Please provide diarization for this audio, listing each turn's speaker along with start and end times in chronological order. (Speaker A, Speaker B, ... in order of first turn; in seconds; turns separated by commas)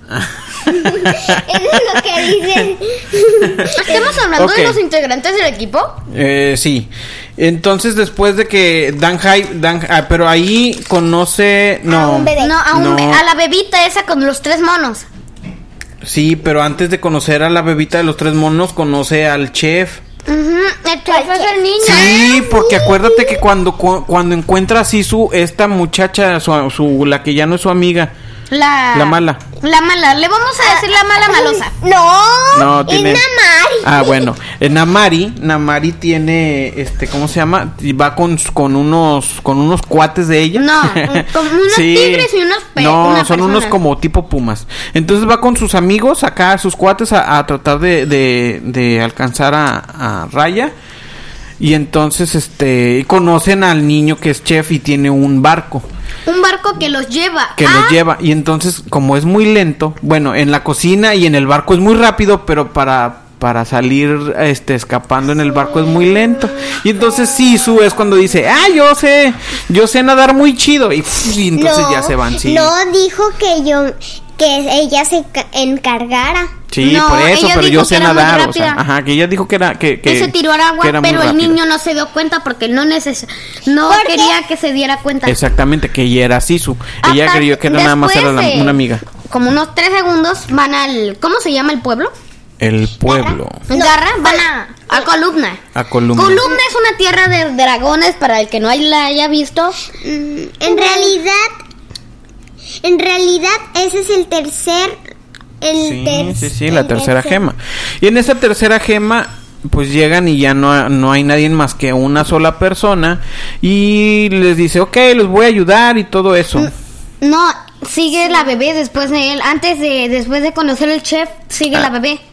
Speaker A: 0.1-1.8, Speaker B: 0.7-4.0, Speaker A: 3.6-4.8, Speaker C: 3.7-6.0, Speaker A: 6.1-13.2, Speaker B: 11.9-12.5, Speaker C: 12.4-15.1, Speaker A: 16.0-20.0, Speaker C: 20.3-22.2, Speaker B: 21.1-23.4, Speaker A: 21.8-28.1, Speaker C: 28.5-31.7, Speaker A: 28.9-29.4, Speaker B: 30.6-34.3, Speaker A: 32.5-33.2, Speaker A: 33.8-50.7, Speaker C: 40.5-43.8, Speaker A: 51.6-55.9, Speaker C: 56.2-58.0, Speaker A: 57.6-72.7, Speaker B: 71.5-76.5, Speaker A: 76.7-81.6, Speaker C: 76.8-78.8, Speaker C: 80.0-85.4, Speaker B: 83.8-84.3, Speaker A: 85.2-89.0, Speaker C: 87.0-92.1, Speaker A: 92.6-93.6, Speaker B: 93.1-94.4, Speaker C: 93.7-95.6, Speaker A: 95.7-96.5, Speaker C: 96.1-99.8, Speaker B: 100.0-101.5, Speaker C: 100.7-101.1, Speaker B: 102.8-105.0, Speaker B: 105.6-107.4, Speaker A: 105.8-116.7, Speaker C: 116.5-122.2